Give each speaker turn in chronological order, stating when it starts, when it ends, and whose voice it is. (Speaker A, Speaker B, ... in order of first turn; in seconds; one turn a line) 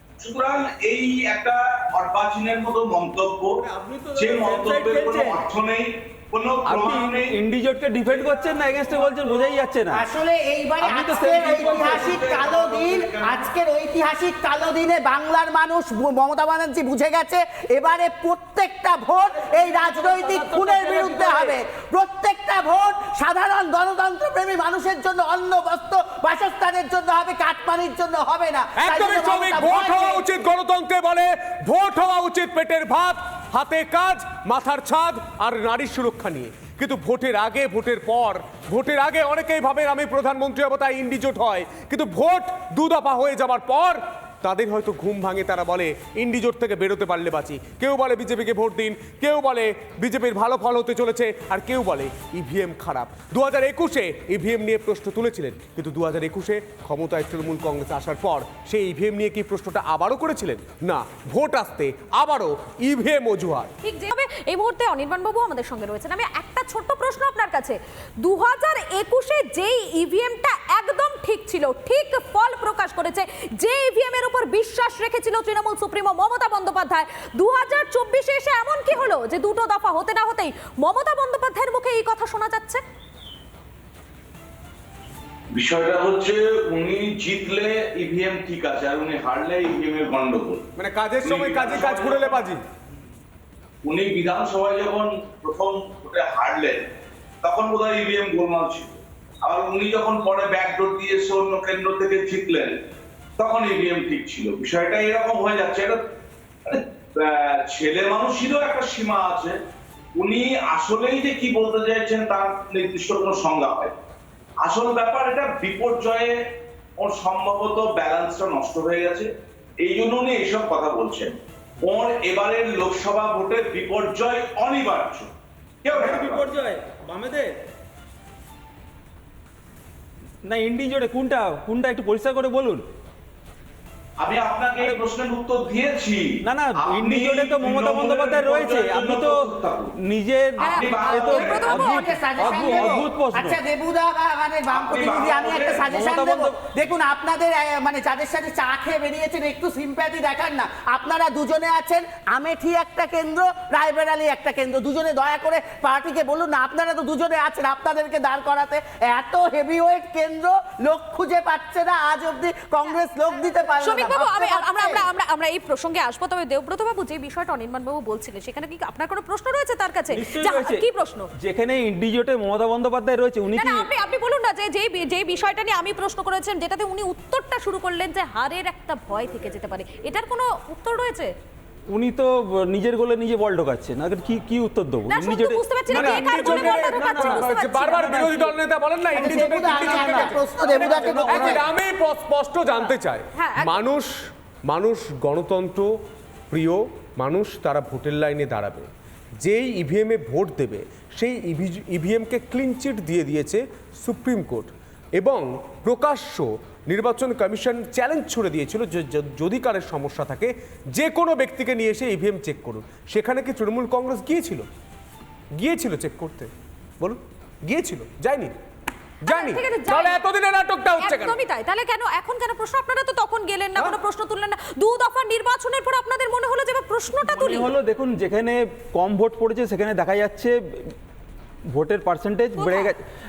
Speaker A: 0.2-3.5
Speaker B: 3.6-5.4
Speaker A: 4.1-7.4
Speaker B: 6.6-10.0
Speaker C: 9.9-30.3
Speaker B: 10.8-11.9
Speaker A: 11.2-13.4
Speaker B: 19.8-21.5
Speaker D: 28.8-63.7
Speaker E: 63.8-82.8
Speaker A: 85.5-90.7
Speaker D: 90.8-92.6
Speaker A: 91.2-92.5
Speaker A: 93.8-96.8
Speaker A: 97.4-102.7
Speaker A: 103.4-106.0
Speaker A: 106.7-109.5
Speaker A: 110.2-113.9
Speaker A: 114.6-116.3
Speaker A: 117.0-119.3
Speaker A: 119.8-125.3
Speaker A: 125.8-126.5
Speaker B: 125.9-127.5
Speaker B: 130.5-132.8
Speaker A: 134.2-139.9
Speaker B: 136.4-143.6
Speaker E: 140.6-142.2
Speaker C: 140.6-165.0
Speaker A: 140.7-141.9
Speaker A: 144.7-145.9
Speaker B: 145.8-146.5
Speaker E: 163.8-171.3
Speaker B: 170.1-173.9
Speaker E: 173.5-181.3
Speaker B: 181.9-188.5
Speaker E: 185.1-188.1
Speaker D: 185.9-194.1
Speaker C: 189.1-191.6
Speaker B: 189.2-191.6
Speaker E: 193.3-193.8
Speaker D: 194.7-195.9
Speaker D: 196.5-198.9
Speaker D: 199.4-214.6
Speaker D: 215.6-218.5
Speaker D: 219.2-221.4
Speaker E: 219.3-220.2
Speaker E: 221.0-227.7
Speaker B: 227.2-230.9
Speaker B: 231.7-233.0
Speaker E: 232.6-232.9